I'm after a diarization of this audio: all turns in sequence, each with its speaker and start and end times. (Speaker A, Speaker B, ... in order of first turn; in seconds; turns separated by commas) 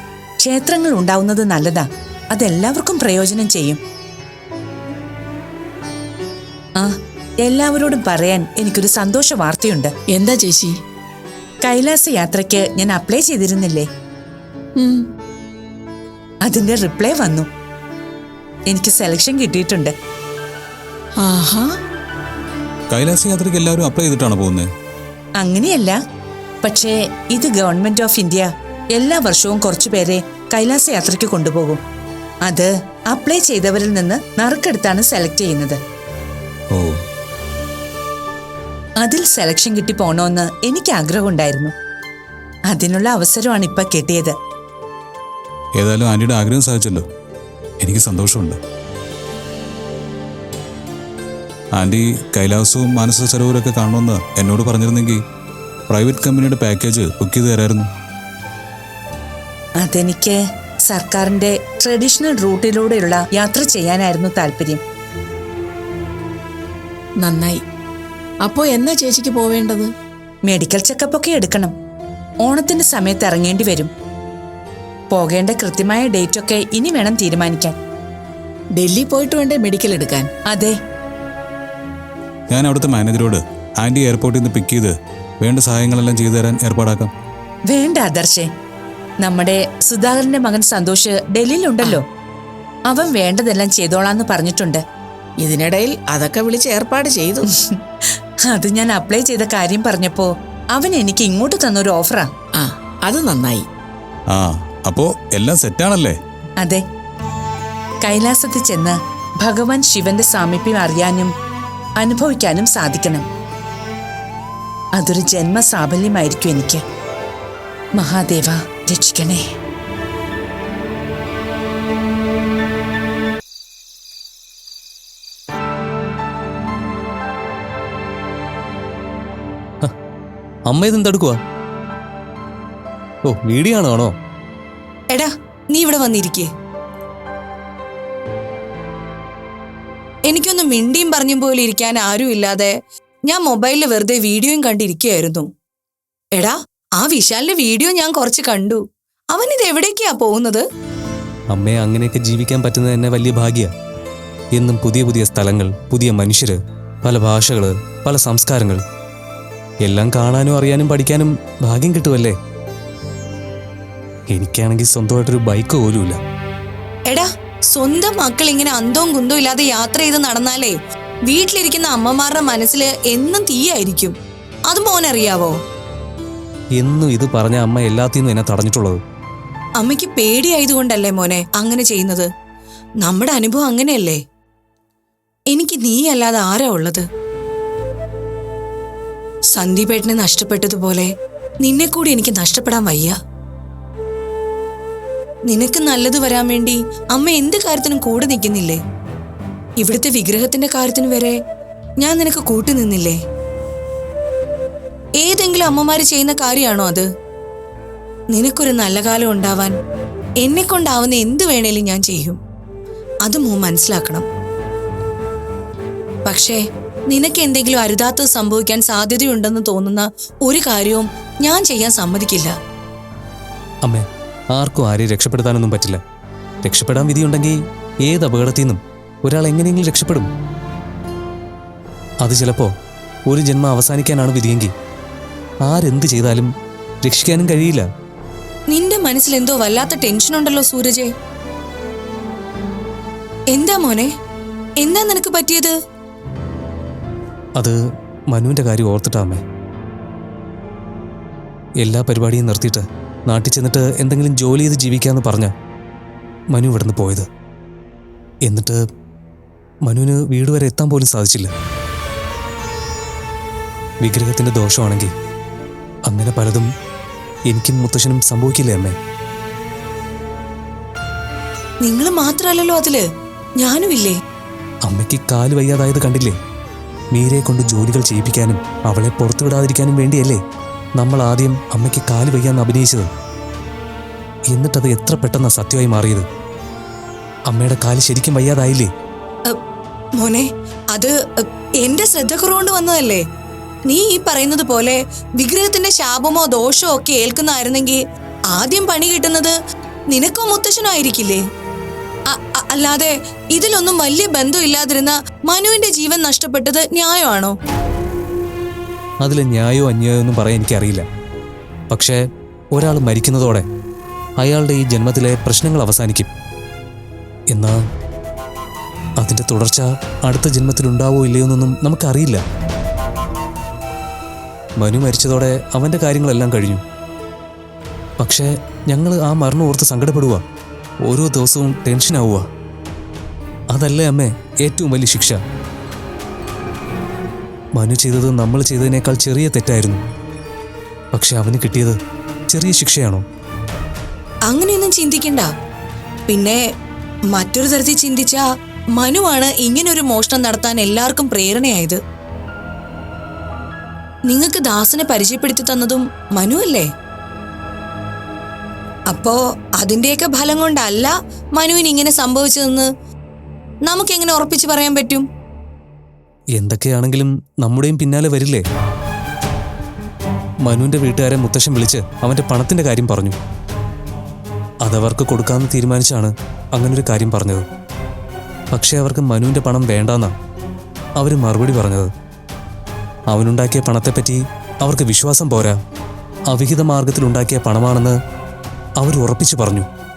Speaker A: 0.4-3.8, Speaker A: 6.8-9.9, Speaker B: 10.1-10.7, Speaker A: 11.6-13.9, Speaker A: 16.4-17.5, Speaker A: 18.7-19.9, Speaker B: 21.2-21.7, Speaker C: 22.9-24.7, Speaker A: 25.4-26.0, Speaker A: 26.6-31.8, Speaker A: 32.5-35.8, Speaker A: 39.0-41.7, Speaker A: 42.7-44.4, Speaker C: 45.8-47.0, Speaker C: 47.8-48.6, Speaker C: 51.7-55.2, Speaker C: 55.9-57.9, Speaker A: 59.8-60.4, Speaker A: 60.9-64.8, Speaker B: 67.2-67.6, Speaker B: 68.5-69.9, Speaker A: 70.5-71.7, Speaker A: 72.4-73.9, Speaker A: 75.1-77.7, Speaker B: 78.8-80.3, Speaker A: 80.5-80.8, Speaker C: 82.5-87.1, Speaker A: 87.7-88.5, Speaker A: 89.2-92.0, Speaker A: 92.9-94.8, Speaker B: 95.4-97.5, Speaker A: 98.5-102.3, Speaker B: 102.6-103.6, Speaker C: 104.3-106.2, Speaker A: 108.0-111.3, Speaker A: 112.0-113.3, Speaker A: 115.0-116.8, Speaker A: 118.0-119.4, Speaker D: 130.7-131.4, Speaker D: 133.3-134.2, Speaker E: 135.1-136.5, Speaker E: 140.3-142.7, Speaker E: 143.3-145.5, Speaker E: 146.4-150.6, Speaker D: 151.5-153.7, Speaker D: 154.5-158.8, Speaker D: 159.8-162.4, Speaker D: 164.3-166.2, Speaker E: 167.1-170.8, Speaker E: 171.3-174.2, Speaker E: 174.7-175.5, Speaker D: 176.8-179.0, Speaker E: 179.8-182.3, Speaker E: 183.0-184.2, Speaker E: 185.5-187.1, Speaker E: 189.5-193.2, Speaker E: 195.5-198.8, Speaker E: 199.8-201.4, Speaker E: 202.0-203.2, Speaker E: 205.2-207.1, Speaker E: 208.3-209.8, Speaker E: 210.4-212.4, Speaker E: 213.2-214.3, Speaker E: 216.2-222.5, Speaker D: 223.8-226.0, Speaker D: 226.6-230.3, Speaker D: 232.2-232.7, Speaker D: 233.3-234.7, Speaker D: 235.6-236.5, Speaker D: 237.0-237.9, Speaker E: 238.7-241.1, Speaker E: 243.5-244.1, Speaker E: 244.8-245.7, Speaker D: 247.6-249.4, Speaker D: 251.8-255.5, Speaker D: 256.5-257.3, Speaker D: 258.4-258.8, Speaker D: 259.8-261.5, Speaker D: 264.0-265.1, Speaker D: 266.1-266.7, Speaker D: 267.5-269.0, Speaker E: 271.8-273.0, Speaker E: 273.6-274.2, Speaker D: 274.9-276.4, Speaker D: 277.1-280.4, Speaker D: 281.0-283.1, Speaker D: 284.5-286.3, Speaker D: 287.5-288.9, Speaker E: 290.2-291.1, Speaker E: 291.8-293.2, Speaker E: 293.9-298.0, Speaker E: 298.5-299.5, Speaker E: 300.1-301.4, Speaker E: 302.3-307.5, Speaker D: 309.2-311.1, Speaker D: 311.9-312.2, Speaker D: 312.7-313.7, Speaker D: 314.4-316.3, Speaker D: 317.5-317.8, Speaker D: 319.2-322.4, Speaker D: 324.8-326.8, Speaker D: 328.2-330.4, Speaker D: 331.1-332.5, Speaker D: 333.7-335.4, Speaker D: 337.8-340.0, Speaker D: 341.1-342.0, Speaker D: 342.5-343.2, Speaker E: 344.5-345.5, Speaker E: 346.3-346.6, Speaker E: 347.3-348.4, Speaker E: 349.0-352.0, Speaker E: 354.3-356.9, Speaker E: 359.1-362.9, Speaker E: 363.9-365.3, Speaker D: 366.6-368.6, Speaker D: 370.6-373.4, Speaker D: 374.8-377.7, Speaker D: 378.7-380.4, Speaker D: 381.2-382.1, Speaker D: 383.3-385.8, Speaker D: 386.5-388.2, Speaker D: 389.0-389.9